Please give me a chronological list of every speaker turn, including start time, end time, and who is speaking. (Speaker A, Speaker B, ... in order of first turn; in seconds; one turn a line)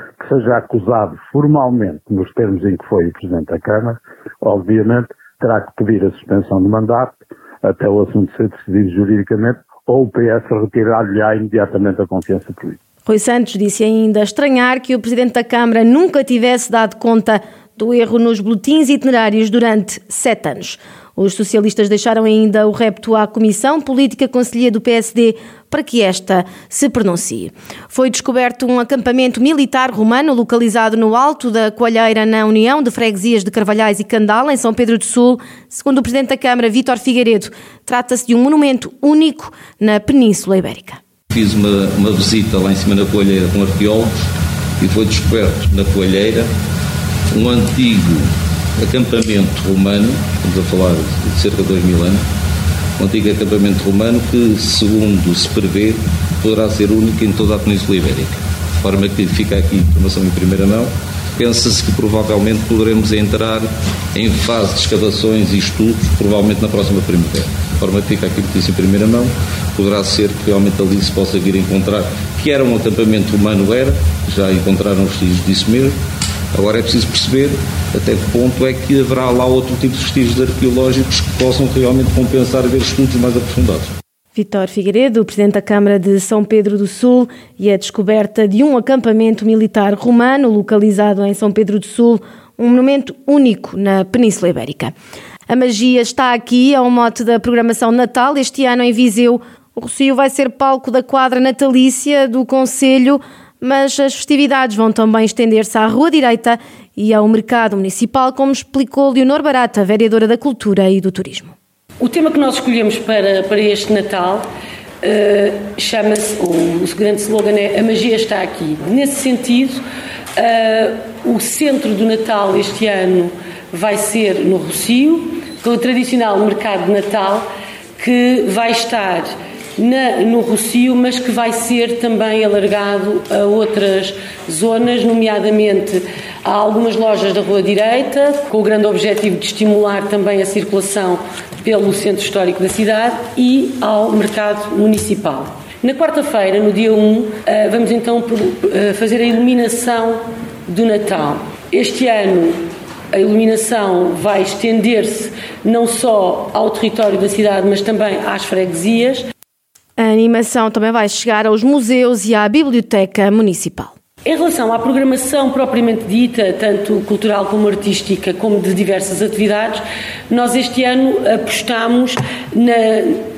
Speaker A: 0.2-12.8
Speaker B: 13.1-41.0
Speaker C: 41.3-44.1
Speaker C: 44.8-46.5
Speaker C: 47.3-52.2
Speaker C: 53.0-76.0
Speaker C: 76.5-84.0
Speaker B: 84.3-94.9
Speaker B: 95.5-111.6
Speaker D: 112.0-114.4
Speaker D: 115.0-119.8
Speaker D: 120.4-127.5
Speaker D: 128.0-152.6
Speaker D: 153.1-159.2
Speaker B: 160.0-163.9
Speaker D: 164.2-173.2